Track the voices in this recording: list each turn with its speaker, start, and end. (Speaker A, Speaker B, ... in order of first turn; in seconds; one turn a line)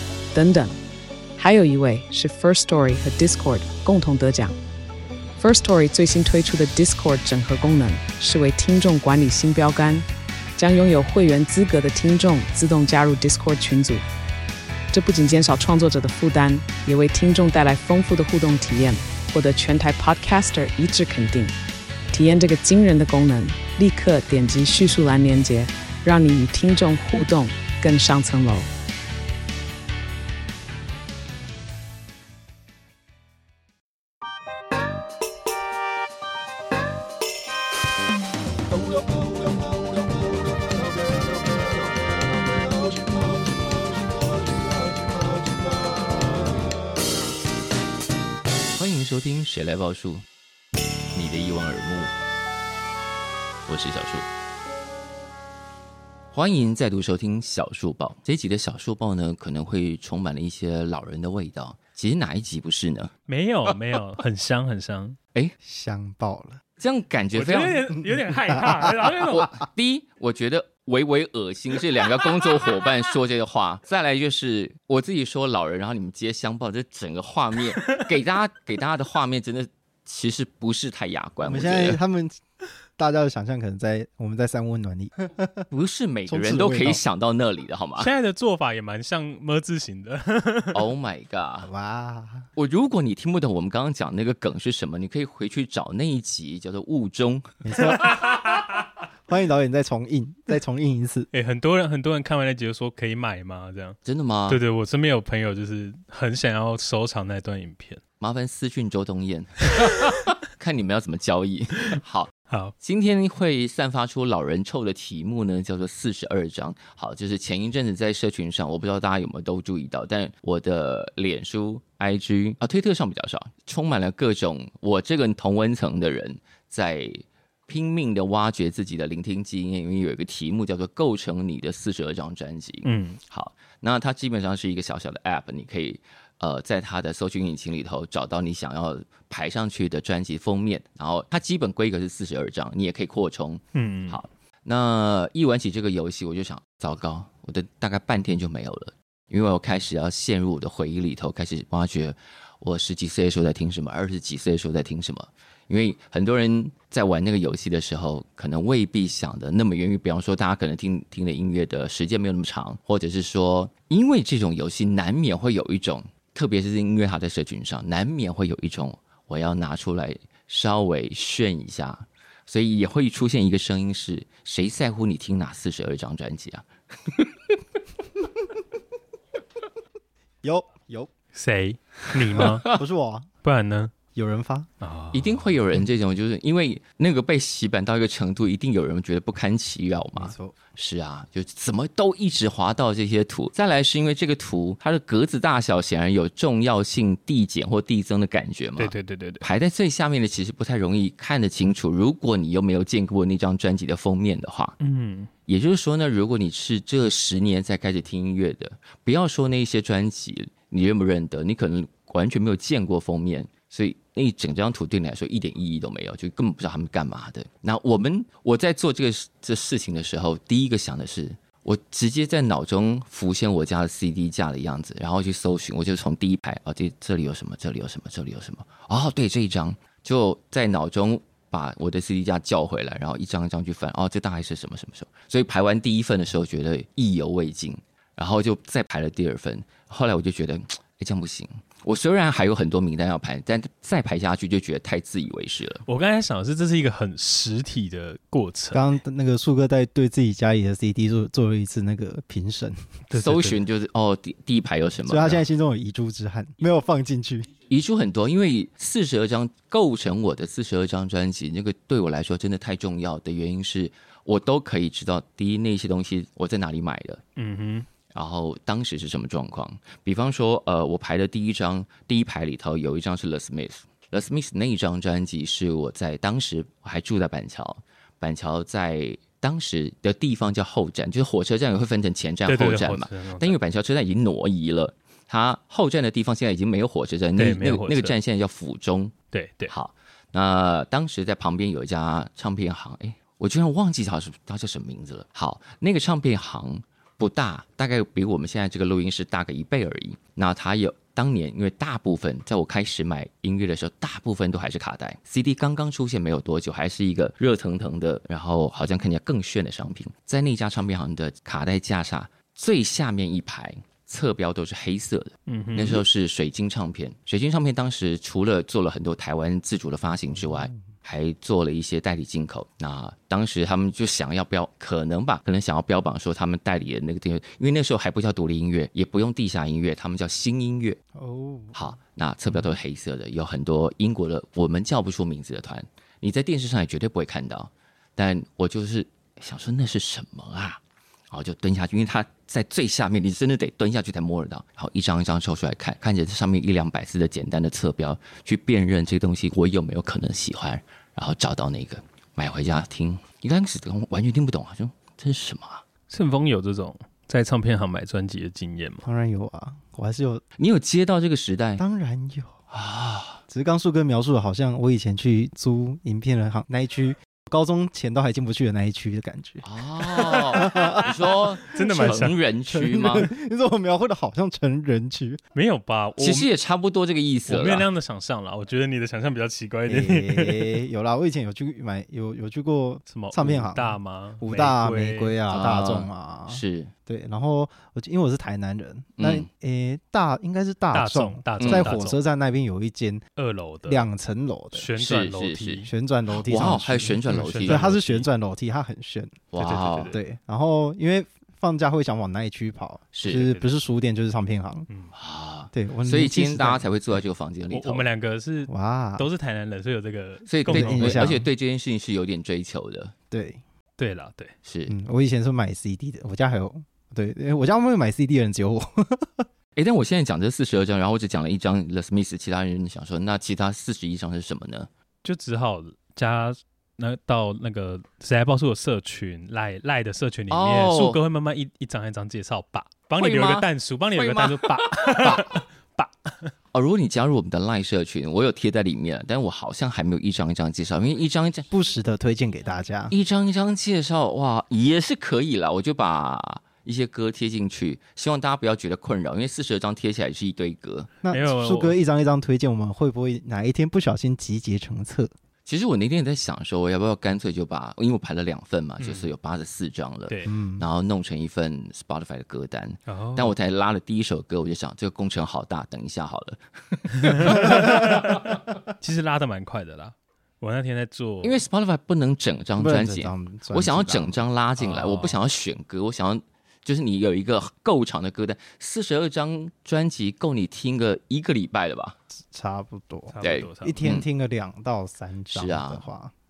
Speaker A: 0.3-0.8
Speaker A: 1.4-4.5
Speaker A: 5.4-14.0
Speaker A: 14.9-21.5
Speaker A: 22.1-28.7
Speaker B: 38.9-39.7
Speaker B: 42.8-43.9
Speaker B: 44.8-45.5
Speaker C: 48.7-50.2
Speaker C: 51.1-52.1
Speaker C: 53.7-54.3
Speaker C: 56.3-63.1
Speaker D: 63.3-65.2
Speaker B: 65.6-66.6
Speaker C: 66.8-67.9
Speaker D: 67.3-69.5
Speaker B: 68.0-68.9
Speaker C: 69.3-82.0
Speaker B: 81.4-82.4
Speaker B: 83.0-85.7
Speaker C: 85.7-88.1
Speaker B: 86.3-87.0
Speaker D: 88.0-90.9
Speaker C: 90.7-91.7
Speaker B: 91.6-92.5
Speaker C: 92.5-97.5
Speaker B: 97.6-98.2
Speaker D: 97.9-98.3
Speaker B: 99.3-101.3
Speaker D: 101.3-104.0
Speaker C: 104.0-104.6
Speaker D: 104.5-108.0
Speaker C: 108.2-177.3
Speaker D: 109.7-110.3
Speaker D: 112.5-112.7
Speaker D: 132.8-133.2
Speaker D: 143.7-144.2
Speaker B: 180.4-181.1
Speaker D: 181.3-182.7
Speaker B: 182.4-183.3
Speaker D: 183.4-183.9
Speaker B: 184.1-184.7
Speaker D: 184.8-185.4
Speaker C: 185.1-204.8
Speaker B: 190.1-190.6
Speaker D: 198.8-199.5
Speaker D: 204.8-205.3
Speaker C: 205.5-245.8
Speaker D: 245.8-248.8
Speaker B: 248.7-252.8
Speaker D: 253.1-253.6
Speaker C: 253.1-255.4
Speaker B: 255.1-257.5
Speaker C: 257.7-267.2
Speaker D: 267.4-267.9
Speaker C: 268.1-331.0
Speaker D: 282.4-283.6
Speaker D: 287.4-288.1
Speaker D: 289.3-289.7
Speaker D: 315.5-316.0
Speaker B: 320.4-320.9
Speaker B: 331.1-332.0
Speaker C: 331.7-355.8
Speaker D: 356.1-359.0
Speaker B: 359.0-360.4
Speaker C: 360.6-361.8
Speaker B: 361.8-362.6
Speaker C: 362.7-363.4
Speaker B: 363.5-371.1
Speaker C: 369.6-373.3
Speaker D: 371.7-372.4
Speaker B: 372.7-375.4
Speaker D: 375.5-376.5
Speaker C: 376.2-377.9
Speaker D: 377.5-380.8
Speaker B: 379.9-393.2
Speaker D: 383.1-385.4
Speaker C: 385.5-386.9
Speaker C: 389.2-389.5
Speaker D: 390.9-392.2
Speaker C: 391.6-391.9
Speaker D: 393.4-394.1
Speaker B: 393.8-394.9
Speaker D: 394.7-395.9
Speaker C: 395.0-395.9
Speaker B: 395.8-399.5
Speaker C: 396.4-397.8
Speaker D: 397.2-398.3
Speaker C: 399.5-400.2
Speaker D: 399.6-400.2
Speaker B: 400.1-404.9
Speaker C: 403.1-403.5
Speaker D: 403.4-403.7
Speaker C: 405.1-408.1
Speaker B: 405.7-407.0
Speaker D: 407.7-411.4
Speaker B: 408.7-409.3
Speaker C: 410.4-413.1
Speaker B: 410.6-411.4
Speaker B: 413.3-413.6
Speaker D: 414.0-414.5
Speaker C: 414.6-414.9
Speaker B: 414.9-419.4
Speaker C: 419.8-424.9
Speaker D: 425.2-436.5
Speaker C: 430.5-431.2
Speaker C: 433.2-435.6
Speaker C: 436.7-441.7
Speaker B: 441.7-443.1
Speaker C: 443.1-451.1
Speaker B: 451.2-455.3
Speaker D: 451.3-452.0
Speaker C: 455.6-467.6
Speaker D: 459.0-459.3
Speaker B: 460.4-460.9
Speaker D: 463.1-463.6
Speaker D: 467.2-471.6
Speaker B: 467.6-468.0
Speaker C: 471.4-482.2
Speaker B: 472.8-474.4
Speaker D: 474.8-475.4
Speaker B: 482.3-486.3
Speaker D: 483.3-484.1
Speaker C: 483.4-484.3
Speaker C: 485.5-486.1